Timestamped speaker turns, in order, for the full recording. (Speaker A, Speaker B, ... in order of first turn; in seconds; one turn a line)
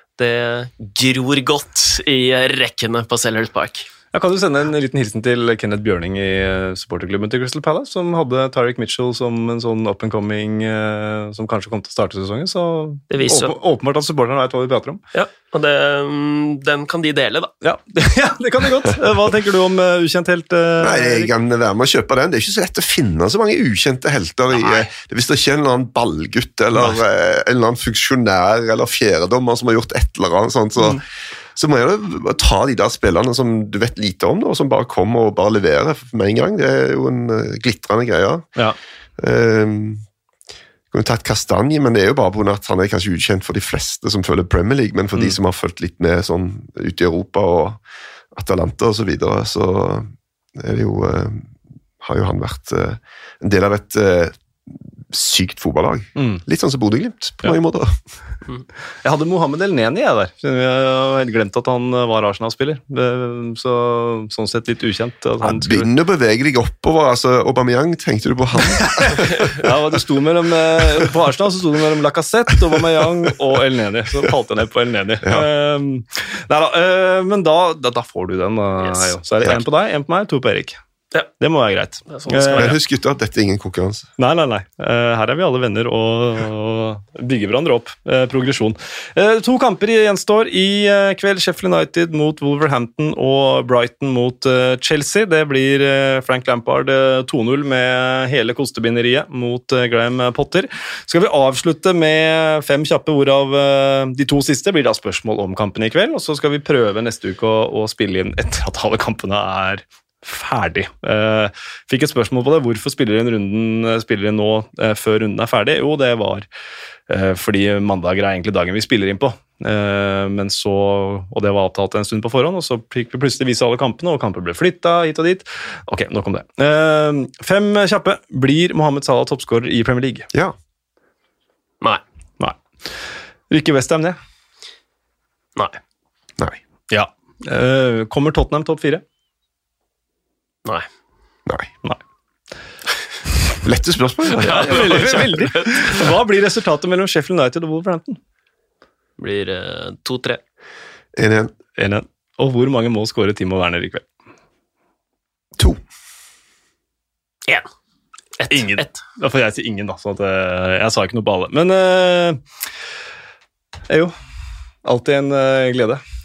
Speaker A: 0.2-3.9
Speaker B: 4.1-15.0
Speaker A: 13.1-13.6
Speaker A: 15.1-17.5
Speaker B: 17.6-21.3
Speaker C: 20.8-31.0
Speaker A: 24.5-24.9
Speaker C: 31.6-38.5
Speaker C: 39.2-40.0
Speaker C: 40.9-47.8
Speaker C: 48.3-51.5
Speaker C: 52.0-58.0
Speaker B: 56.2-56.4
Speaker B: 59.0-65.9
Speaker C: 65.4-69.7
Speaker B: 69.5-80.8
Speaker A: 78.8-79.1
Speaker B: 81.4-82.8
Speaker A: 82.1-82.8
Speaker C: 82.5-84.1
Speaker B: 84.2-116.5
Speaker B: 117.1-130.3
Speaker B: 132.4-133.0
Speaker B: 133.5-134.2
Speaker B: 136.9-139.0
Speaker C: 143.6-145.3
Speaker A: 144.4-146.1
Speaker B: 144.4-148.2
Speaker A: 149.2-150.4
Speaker C: 151.2-151.5
Speaker B: 151.8-154.1
Speaker A: 158.4-159.0
Speaker B: 158.5-162.4
Speaker B: 163.9-164.1
Speaker B: 164.8-166.0